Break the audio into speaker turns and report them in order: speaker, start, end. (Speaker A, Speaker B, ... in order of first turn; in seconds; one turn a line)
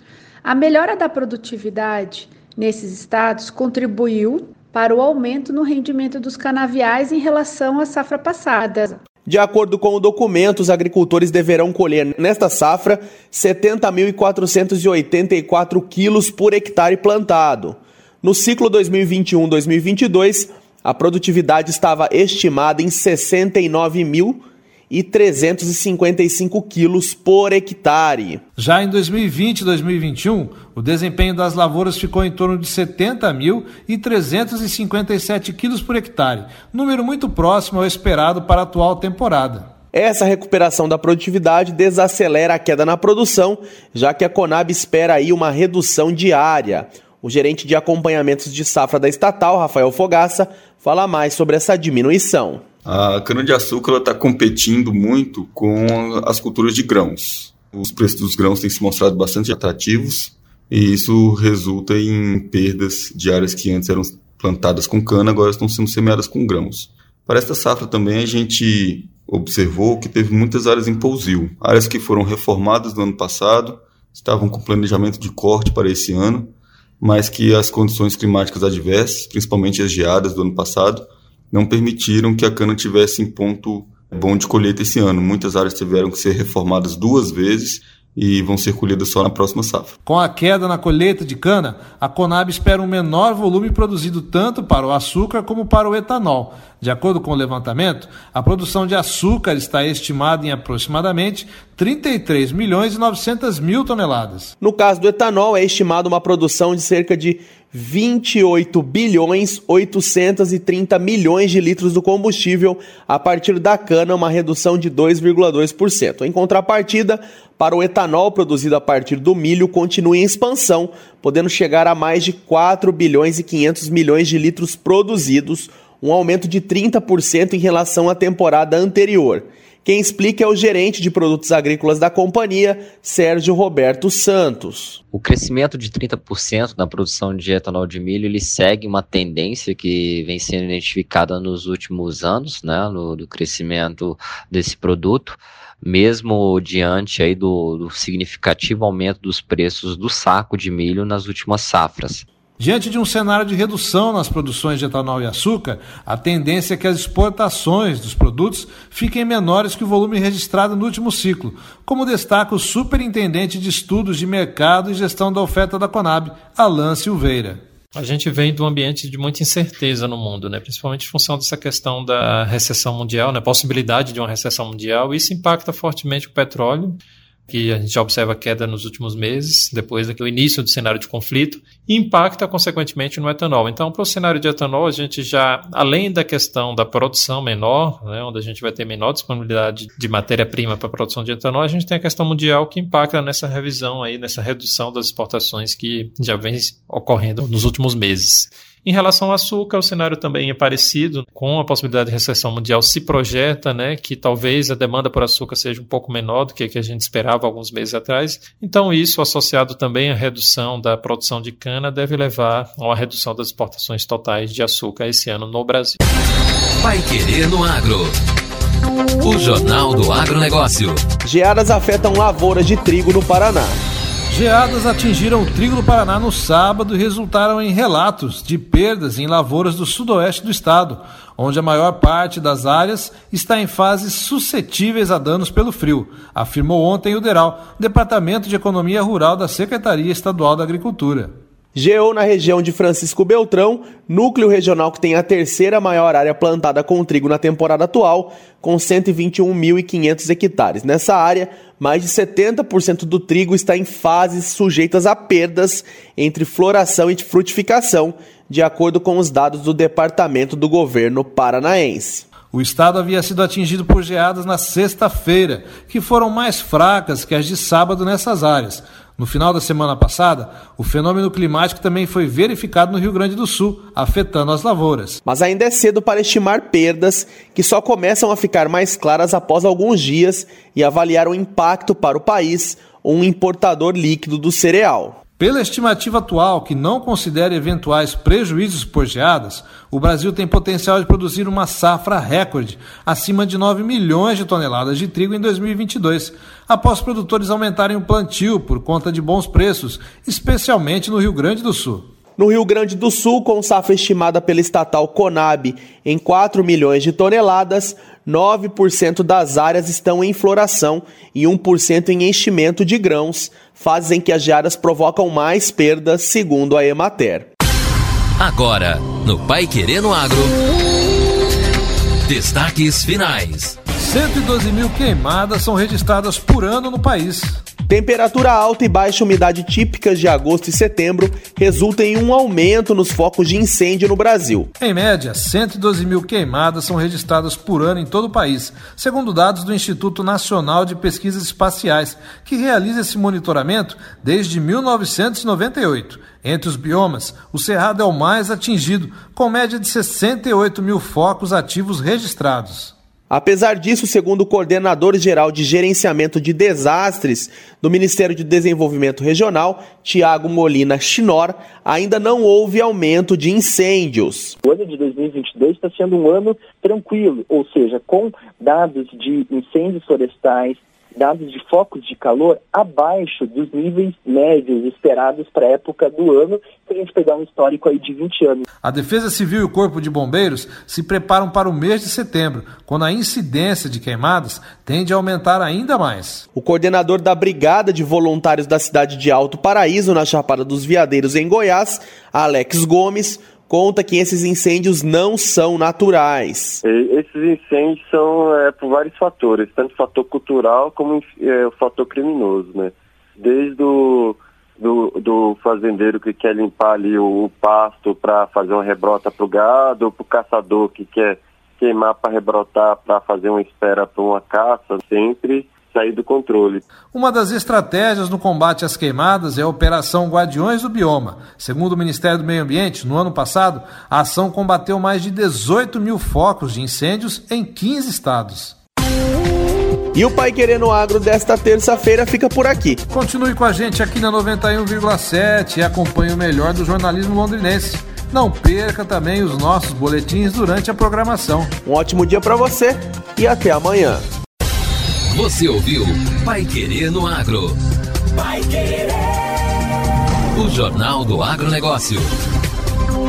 Speaker A: 0.4-9.0
Speaker B: 9.2-28.4
Speaker C: 28.6-39.7
Speaker B: 39.9-52.6
Speaker D: 52.8-89.9
Speaker C: 90.0-104.5
Speaker B: 104.6-135.0
Speaker E: 135.1-152.2
Speaker C: 152.6-167.6
Speaker F: 167.9-216.0
Speaker G: 216.8-218.2
Speaker G: 219.2-221.0
Speaker B: 221.2-223.8
Speaker C: 224.3-241.3
Speaker B: 241.7-262.3
Speaker C: 262.5-275.2
Speaker B: 275.2-285.2
Speaker C: 285.4-302.1
Speaker B: 302.4-317.5
Speaker G: 318.4-320.5
Speaker G: 322.3-323.8
Speaker C: 324.0-327.6
Speaker B: 327.9-334.7
Speaker C: 334.8-352.9
Speaker B: 353.3-364.6
Speaker H: 364.6-378.6
Speaker C: 378.8-386.4
Speaker B: 386.5-396.8
Speaker I: 396.8-416.8
Speaker C: 417.1-428.8
Speaker B: 430.1-433.0
Speaker C: 433.1-441.7
Speaker B: 441.8-444.2
Speaker G: 445.3-447.8
Speaker G: 450.5-452.3